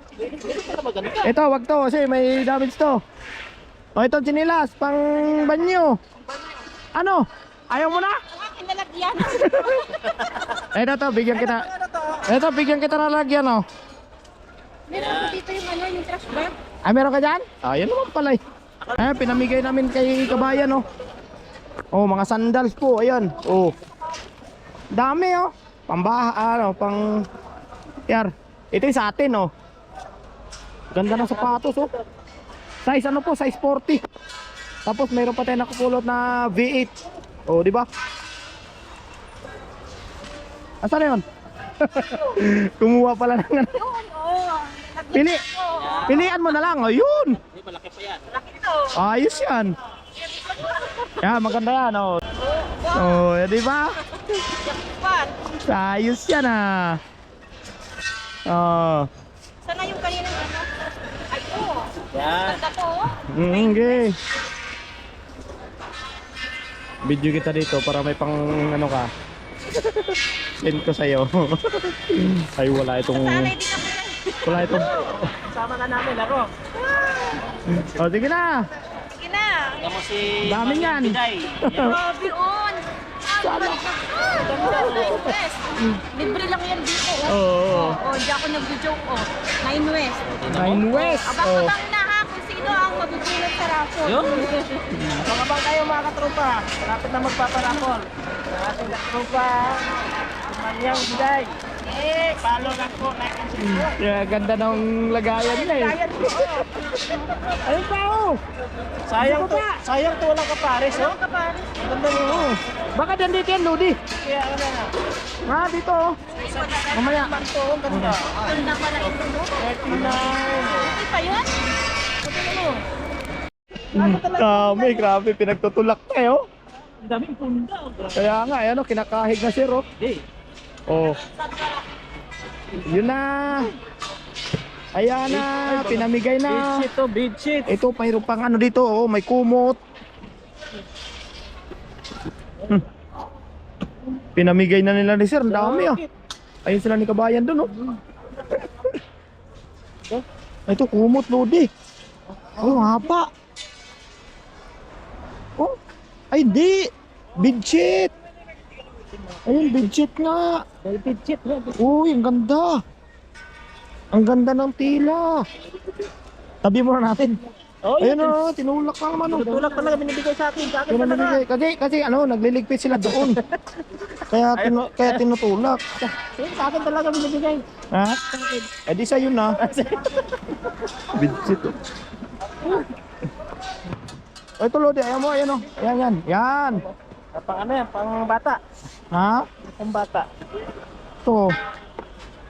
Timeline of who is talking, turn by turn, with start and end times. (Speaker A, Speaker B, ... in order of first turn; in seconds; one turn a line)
Speaker A: 0.2-1.3
Speaker B: 1.2-3.0
Speaker B: 3.9-6.0
Speaker B: 6.9-8.2
Speaker C: 8.2-10.2
Speaker B: 9.2-9.8
Speaker B: 10.7-11.7
Speaker B: 12.3-13.6
Speaker C: 14.9-16.5
Speaker A: 14.9-15.3
Speaker B: 16.8-18.4
Speaker B: 18.9-20.8
Speaker B: 21.9-23.7
Speaker B: 24.9-27.1
Speaker B: 28.1-29.5
Speaker B: 30.9-31.9
Speaker B: 32.9-34.0
Speaker B: 34.9-36.9
Speaker B: 37.5-37.9
Speaker B: 40.8-41.2
Speaker B: 41.8-43.9
Speaker C: 43.8-45.1
Speaker B: 45.1-45.4
Speaker C: 45.7-46.0
Speaker A: 45.8-46.2
Speaker B: 46.0-47.4
Speaker A: 47.5-48.4
Speaker B: 48.9-49.8
Speaker B: 51.2-52.2
Speaker B: 52.9-53.9
Speaker C: 54.8-55.3
Speaker B: 55.6-57.0
Speaker B: 58.5-59.1
Speaker C: 59.6-60.7
Speaker C: 61.3-63.2
Speaker A: 62.1-62.7
Speaker B: 63.2-64.2
Speaker B: 67.0-69.1
Speaker B: 70.6-73.5
Speaker C: 73.2-74.4
Speaker B: 74.4-75.3
Speaker A: 75.4-77.4
Speaker B: 77.6-78.7
Speaker C: 79.2-79.8
Speaker A: 79.7-82.0
Speaker B: 80.4-82.0
Speaker C: 82.0-82.9
Speaker B: 83.4-83.9
Speaker C: 83.4-94.6
Speaker A: 84.2-85.4
Speaker B: 84.8-85.1
Speaker B: 85.8-86.0
Speaker B: 87.2-88.0
Speaker A: 90.3-91.0
Speaker B: 90.5-91.8
Speaker A: 94.0-104.0
Speaker B: 94.9-95.2
Speaker B: 103.8-106.0
Speaker A: 105.5-106.6
Speaker B: 107.7-108.4
Speaker A: 109.1-112.5
Speaker B: 109.2-109.7
Speaker B: 112.1-114.0
Speaker A: 114.1-114.9
Speaker B: 115.5-116.0
Speaker A: 116.4-118.6
Speaker B: 116.9-117.3
Speaker C: 118.5-119.5
Speaker A: 119.5-121.1
Speaker C: 120.8-121.5
Speaker A: 122.2-122.8
Speaker A: 123.9-125.1
Speaker B: 123.9-126.4
Speaker A: 127.0-128.2
Speaker B: 128.1-129.8
Speaker B: 130.9-131.2
Speaker B: 132.8-133.7
Speaker B: 134.9-136.8
Speaker A: 135.3-137.7
Speaker B: 137.7-139.8
Speaker B: 144.3-146.0
Speaker A: 145.5-146.1
Speaker B: 146.6-147.7
Speaker B: 150.7-151.7
Speaker B: 152.6-153.3
Speaker B: 156.3-158.1
Speaker B: 159.4-160.6
Speaker A: 160.8-161.7
Speaker B: 161.8-162.8
Speaker B: 164.1-165.4
Speaker B: 166.6-167.4
Speaker A: 167.8-168.4
Speaker B: 168.0-169.5
Speaker A: 169.2-171.4
Speaker B: 170.9-173.4
Speaker A: 173.1-173.6
Speaker B: 174.3-176.0
Speaker A: 174.6-175.2
Speaker A: 176.2-177.6
Speaker B: 177.9-179.7
Speaker A: 179.7-180.4
Speaker B: 181.1-181.8
Speaker B: 184.6-186.8
Speaker A: 187.3-188.6
Speaker B: 189.1-189.5
Speaker A: 189.6-190.3
Speaker B: 191.2-191.5